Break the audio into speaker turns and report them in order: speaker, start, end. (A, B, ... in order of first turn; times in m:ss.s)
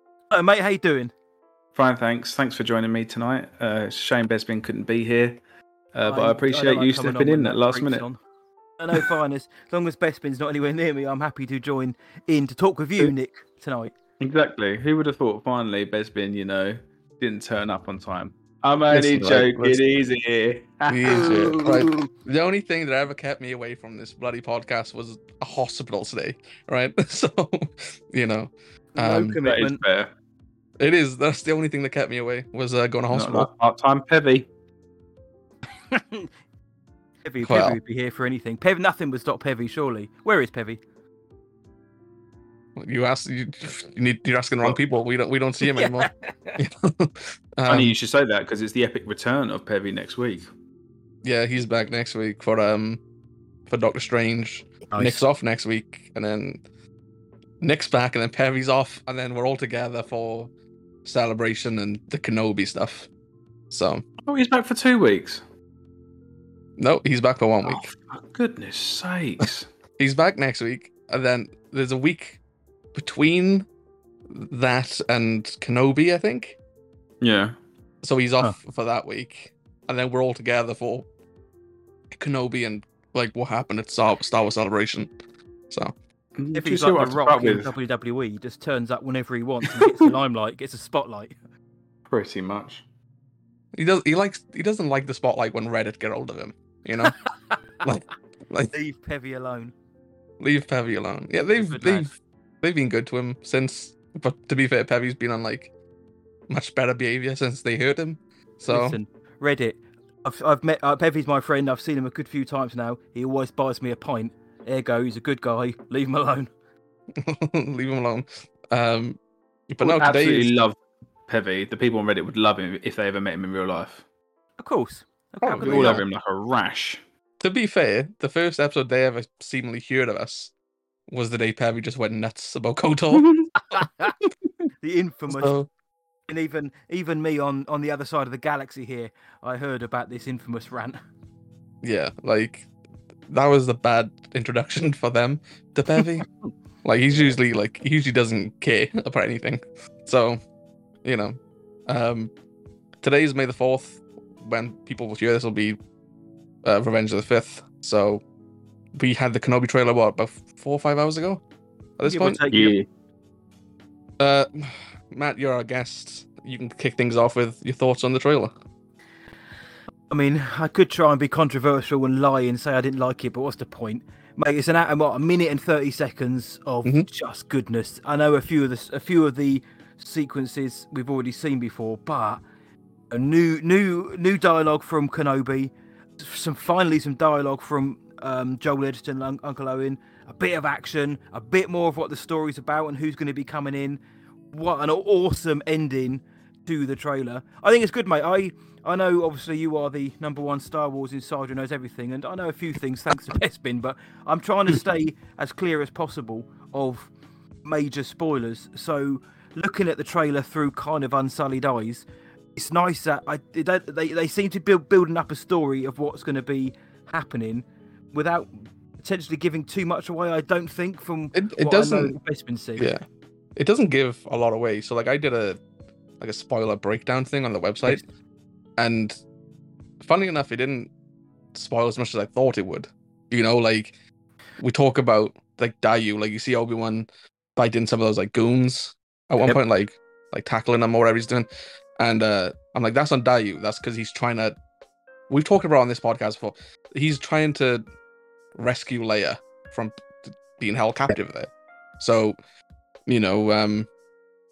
0:00.3-0:01.1 A
0:01.7-0:05.4 B
0:05.9-0:08.0 B
0:06.0-0:08.2 A
0:08.8-0:13.9 A
0:14.2-0:21.6 B
0:18.9-0:19.8 C
0:20.9-0:29.4 C
0:21.1-0:22.1 A
0:29.0-0:29.8 A
0:29.4-0:30.1 B
0:30.8-0:33.5 C
0:33.1-0:34.5 B
0:35.9-0:36.3 A
0:37.2-0:40.8 A
0:37.4-0:37.8 C
0:42.8-0:47.9 C
0:45.8-0:46.5 A
0:47.7-0:50.5 B
0:51.2-0:53.0 C
0:53.7-0:56.6 C
0:54.9-0:55.2 A
0:57.6-1:00.5 C
1:01.0-1:03.1 C
1:03.7-1:04.0 C
1:04.2-1:05.4 B
1:06.8-1:07.8 C
1:07.6-1:09.7 B
1:10.0-1:12.4 C
1:12.9-1:13.7 C
1:14.3-1:16.6 C
1:17.2-1:17.6 B
1:18.0-1:21.1 C
1:22.1-1:25.1 C
1:25.7-1:25.9 C
1:26.4-1:27.7 B
1:26.5-1:31.3 A
1:32.1-1:32.8 B
1:33.7-1:37.1 C
1:37.8-1:38.7 C
1:38.7-1:39.7 A
1:40.4-1:42.1 C
1:41.7-1:42.1 A
1:42.6-1:45.7 C
1:46.5-1:49.0 C
1:48.7-1:56.5 A
1:57.2-2:00.5 C
1:59.8-2:04.0 B
2:04.6-2:06.0 A
2:05.4-2:06.0 C
2:05.6-2:07.0 B
2:07.4-2:10.5 C
2:11.1-2:13.2 C
2:13.7-2:14.1 A
2:14.8-2:15.6 A
2:15.3-2:15.7 C
2:16.3-2:21.0 A
2:21.8-2:22.7 C
2:23.3-2:26.3 C
2:26.8-2:30.4 C
2:31.0-2:32.3 C
2:33.0-2:35.8 C
2:36.6-2:38.2 C
2:38.9-2:41.4 C
2:42.0-2:42.4 C
2:42.0-2:42.8 A
2:42.5-2:42.8 B
2:44.2-2:48.5 C
2:50.1-3:02.4 A
3:03.1-3:14.0 A
3:14.5-3:27.1 A
3:27.6-3:42.9 A
3:41.3-3:42.1 C
3:42.8-3:43.0 C
3:43.6-3:45.6 C
3:46.2-3:48.0 C
3:48.8-3:49.2 C
3:50.0-3:50.9 C
3:51.5-3:53.9 C
3:54.6-4:04.6 C
4:05.3-4:07.8 C
4:08.5-4:12.4 C
4:13.1-4:13.9 C